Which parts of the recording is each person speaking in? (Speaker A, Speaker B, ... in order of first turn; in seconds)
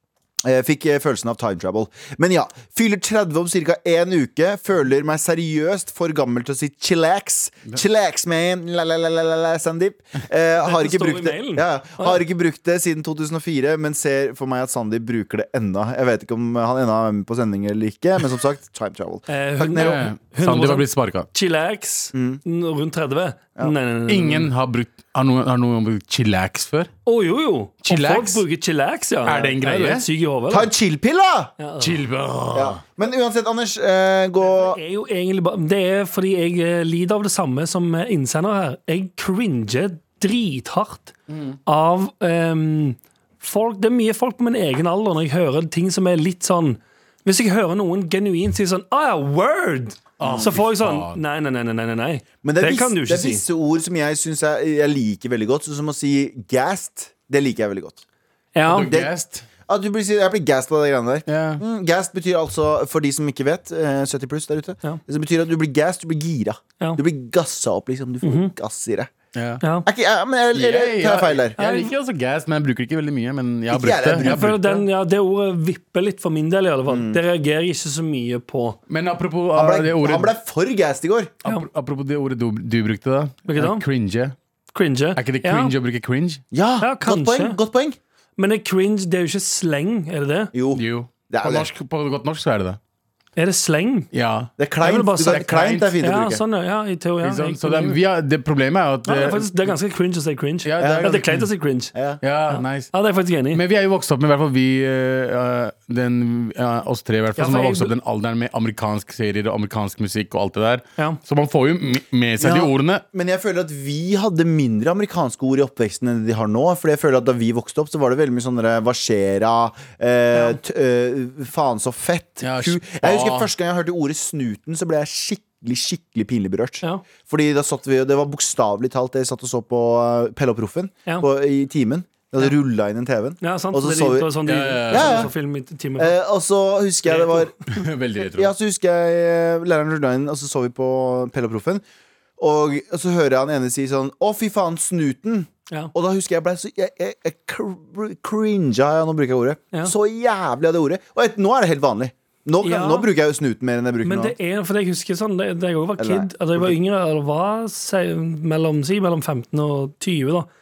Speaker A: 0.4-20.1, 22.1-22.4, 30.5-31.5, 32.5-34.8, 50.2-50.5, 52.4-58.0, 58.9-59.1, 59.7-69.1, 69.8-71.6, 73.7-74.4, 76.9-77.2, 79.5-81.3, 86.5-88.0, 90.5-91.7, 94.6-96.4, 100.8-101.2, 101.9-102.2, 112.4-135.3, 136.0-137.5, 138.3-141.8, 142.4-154.3, 156.0-156.8
Speaker B: 10.6-12.2, 19.3-24.5, 27.1-30.7, 31.6-32.0, 34.4-41.1, 41.6-53.4, 58.5-58.9, 68.2-68.5, 69.6-69.9, 71.6-71.9, 74.2-78.8, 83.5-83.8, 84.7-85.7, 86.8-87.6, 88.4-90.5, 93.3-94.1, 94.8-98.0, 99.0-101.9, 102.5-103.6, 107.3-107.9, 120.3-120.6, 133.4-136.1, 137.1-137.5, 152.6-153.1, 154.0-160.5
Speaker C: 19.8-21.3, 24.1-26.9, 27.8-28.4, 29.2-30.1, 31.8-32.8, 50.2-51.2, 58.7-59.4, 61.3-61.6, 69.3-69.6, 70.5-74.8, 78.9-80.3, 81.4-84.3, 85.2-86.4, 90.7-92.8, 94.1-94.5, 95.3-95.9, 97.2-99.7, 100.6-101.5, 102.2-102.9, 103.5-113.0, 122.4-123.5, 134.4-135.3, 137.7-138.5